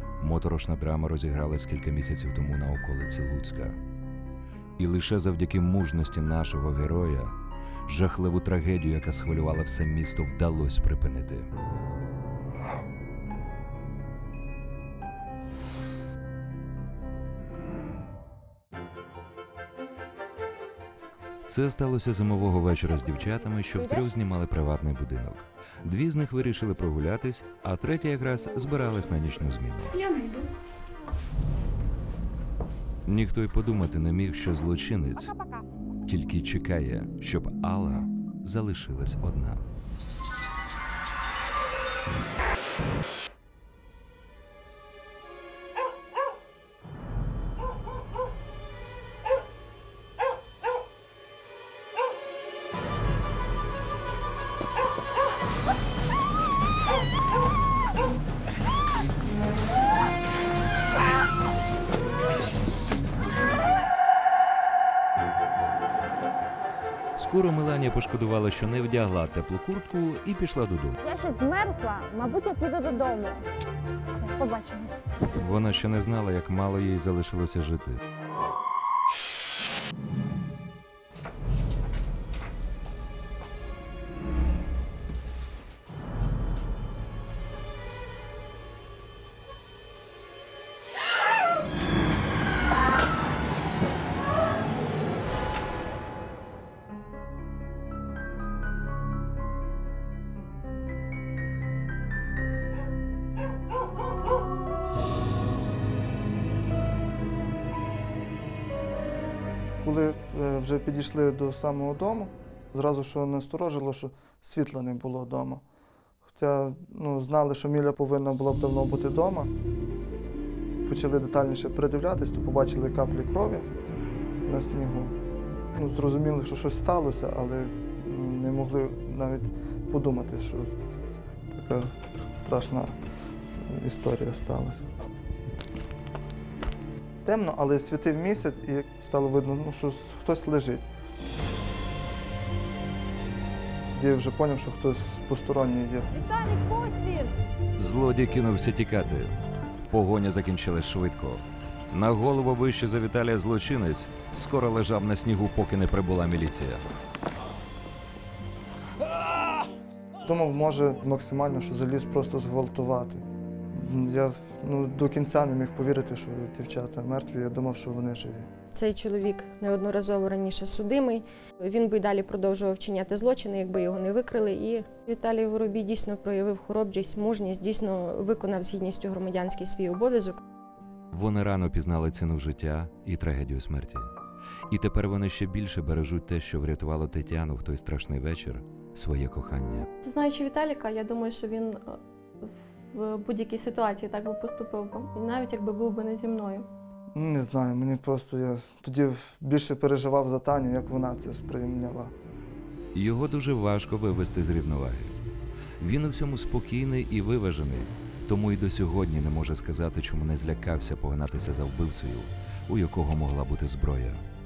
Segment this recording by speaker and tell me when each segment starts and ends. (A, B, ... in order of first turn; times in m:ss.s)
0:00.2-0:03.8 A
0:04.8-0:07.3 A
0:07.9-0:11.5 A
0:21.5-0:30.1 A
0:33.1-0:35.4 A
0:36.0-0:39.6 A
1:07.2-1:11.0 A
1:11.5-1:13.1 B
1:15.2-1:18.0 A
1:49.8-1:55.6 C
1:56.4-1:59.5 C
2:00.8-2:03.7 C
2:04.5-2:05.1 C
2:05.8-2:10.7 C
2:11.5-2:13.0 C
2:13.6-2:14.9 C
2:17.2-2:20.9 C
2:23.9-2:26.1 C
2:26.3-2:27.1 B
2:27.8-2:29.3 A
2:29.9-2:36.8 A
2:40.2-2:48.5 C
2:48.7-3:00.4 D
3:01.1-3:04.1 A
3:04.7-3:09.9 A
3:10.0-3:16.7 E
3:17.2-3:22.1 C
3:23.0-3:25.2 A
3:25.8-3:34.2 A